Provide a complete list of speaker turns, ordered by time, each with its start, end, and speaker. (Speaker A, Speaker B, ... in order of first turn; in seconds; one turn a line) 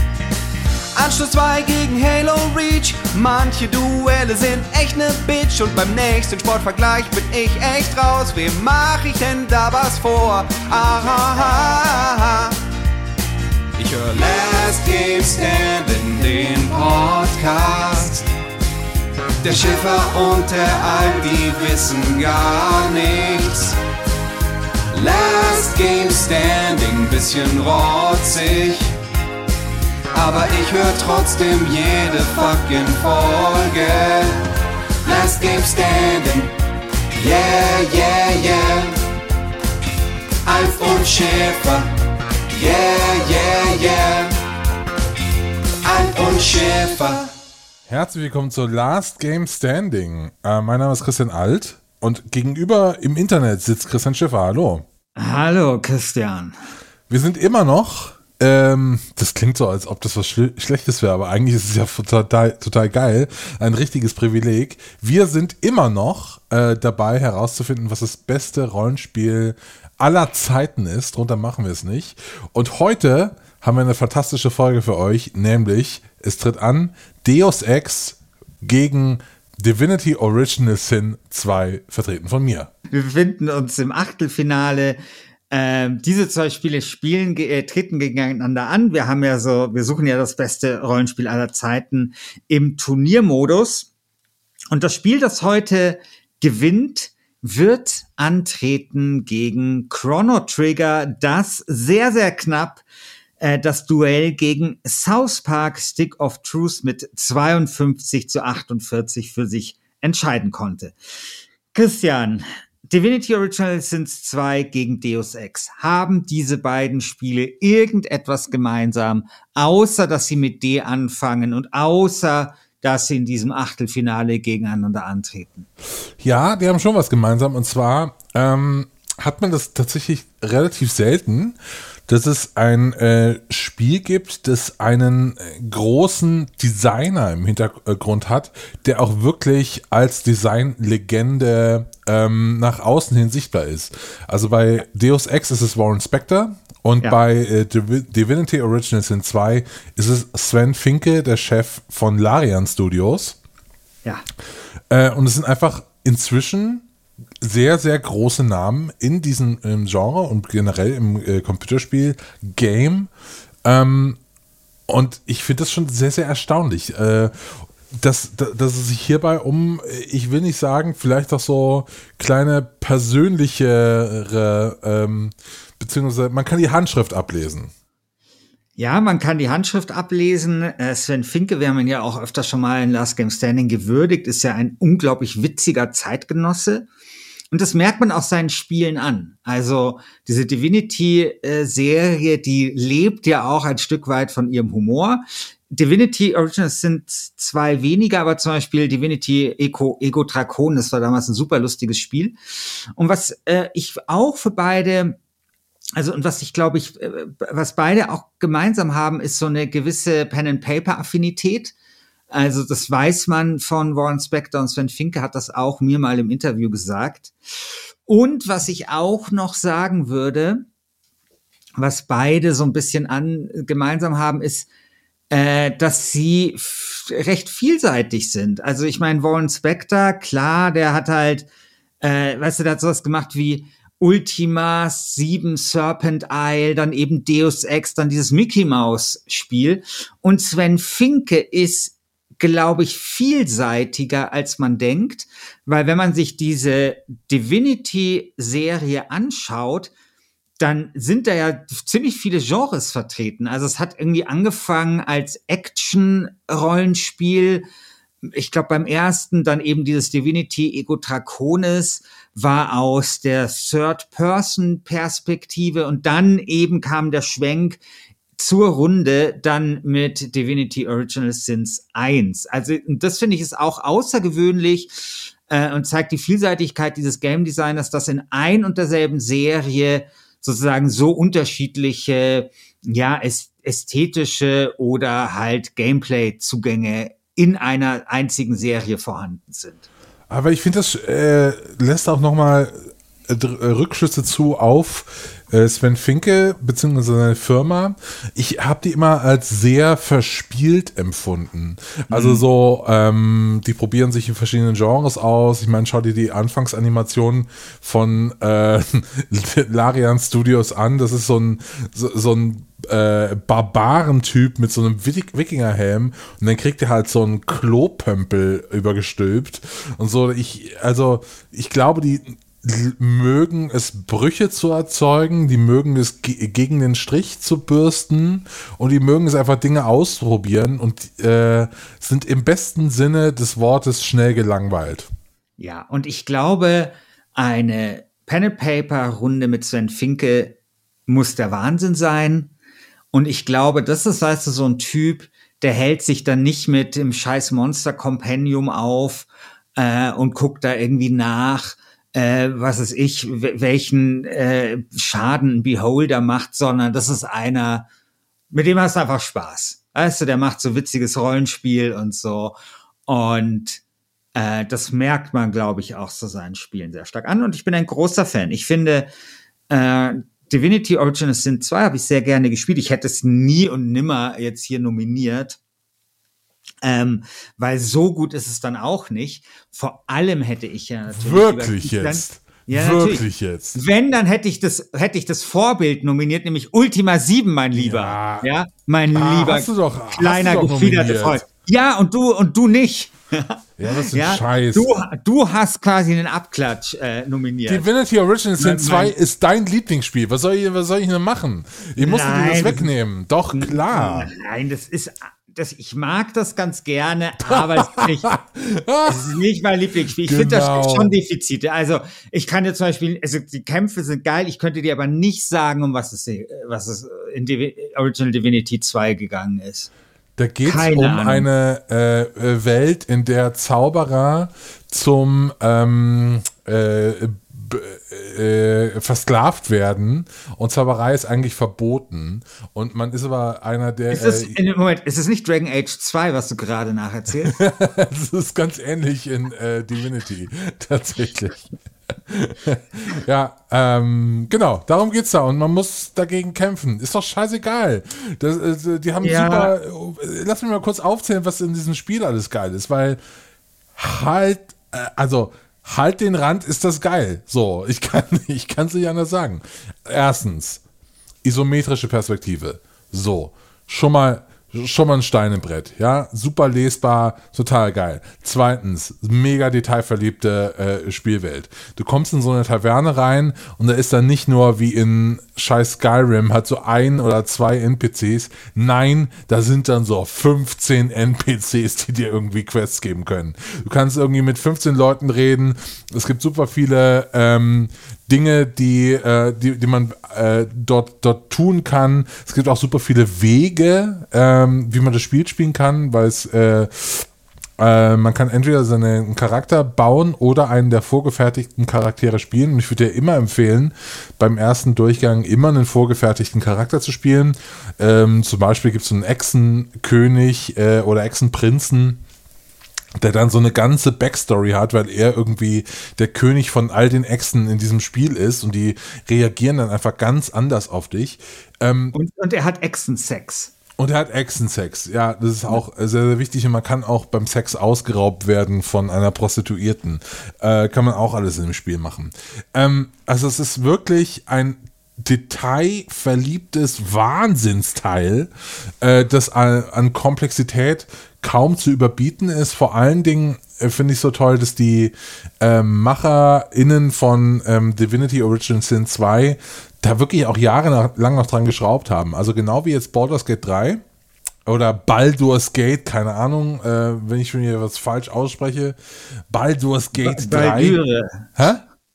Speaker A: 0.9-12.6
Speaker A: 13.8-18.2
Speaker A: 19.4-23.8
Speaker A: 24.9-28.9
Speaker A: 30.1-34.5
Speaker A: 35.0-36.5
Speaker A: 37.1-39.0
Speaker A: 40.5-41.9
Speaker A: 42.5-44.4
Speaker A: 45.8-47.3
Speaker B: 47.9-54.9
Speaker C: 55.2-56.5
Speaker B: 57.1-82.7
Speaker C: 82.9-85.0
Speaker C: 85.5-93.9
Speaker C: 94.7-102.8
Speaker C: 103.4-111.0
Speaker C: 111.7-125.7
Speaker B: 126.2-153.4
Speaker B: 154.9-156.9
Speaker B: 157.4-163.1
Speaker B: 163.6-164.2
Speaker B: 164.9-177.7
Speaker C: 178.8-186.9
Speaker C: 187.5-205.2
Speaker C: 206.0-211.7
Speaker C: 212.3-220.7
Speaker C: 221.8-224.7
Speaker C: 225.3-231.5
Speaker C: 232.0-249.9
Speaker C: 250.6-257.7
Speaker C: 258.2-267.8
Speaker C: 268.4-289.9
Speaker B: 290.3-335.1
Speaker C: 302.1-302.4
Speaker C: 335.6-342.5
Speaker C: 343.1-357.9
Speaker C: 358.5-363.8
Speaker C: 364.4-369.1
Speaker C: 369.7-375.6
Speaker C: 376.8-397.9
Speaker B: 381.1-383.8
Speaker B: 387.7-388.5
Speaker B: 389.1-391.4
Speaker B: 393.8-395.1
Speaker B: 397.7-404.3
Speaker C: 398.6-399.1
Speaker C: 402.0-402.9
Speaker C: 403.5-408.4
Speaker B: 407.5-409.3
Speaker C: 409.1-419.9
Speaker B: 410.2-411.2
Speaker B: 420.4-434.6
Speaker C: 420.6-421.5
Speaker C: 434.1-437.6
Speaker B: 437.5-453.2
Speaker C: 449.2-449.7
Speaker B: 454.0-460.8
Speaker B: 461.4-512.2
Speaker B: 513.2-522.1
Speaker C: 522.1-523.7
Speaker B: 524.0-538.5
Speaker B: 539.0-554.0
Speaker B: 554.7-559.0
Speaker B: 559.5-561.0
Speaker C: 560.2-561.5
Speaker B: 561.6-561.8